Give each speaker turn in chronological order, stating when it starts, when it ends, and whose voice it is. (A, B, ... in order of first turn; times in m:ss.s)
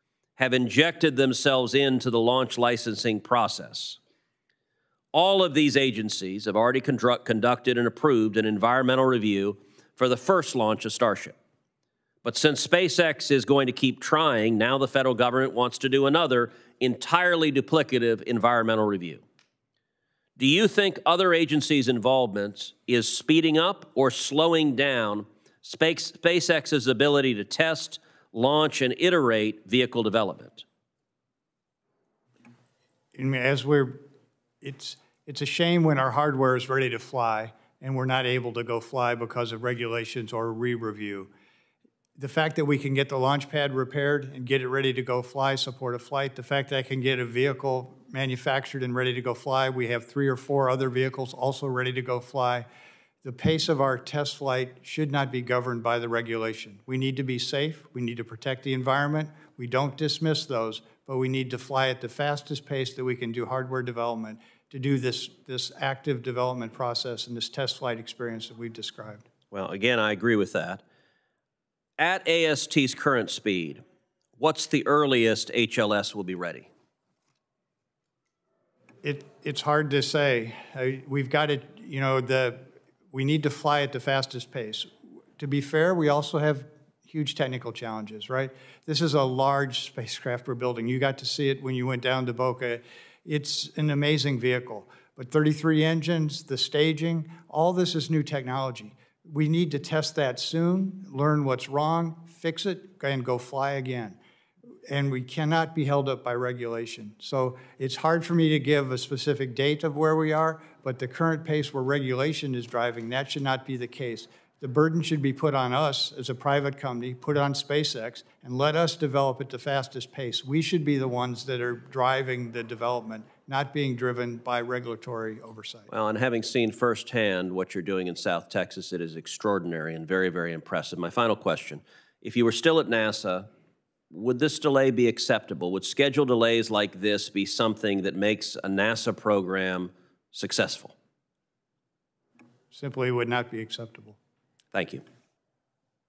0:00.4-0:04.0 A
0:05.1-0:11.4 A
0:12.2-0:19.2 A
0:20.4-0:30.6 A
0:33.1-0:34.0 B
0:34.6-0:41.3 B
0:42.2-0:52.7 B
0:53.2-1:09.2 B
1:09.5-1:10.8 A
1:12.0-1:13.8 A
1:14.4-1:16.7 A
1:19.0-1:22.6 B
1:23.1-1:44.2 B
1:44.9-2:05.9 B
2:05.9-2:13.5 A
2:14.1-2:21.0 A
2:22.7-2:24.2 B
2:24.7-2:25.0 A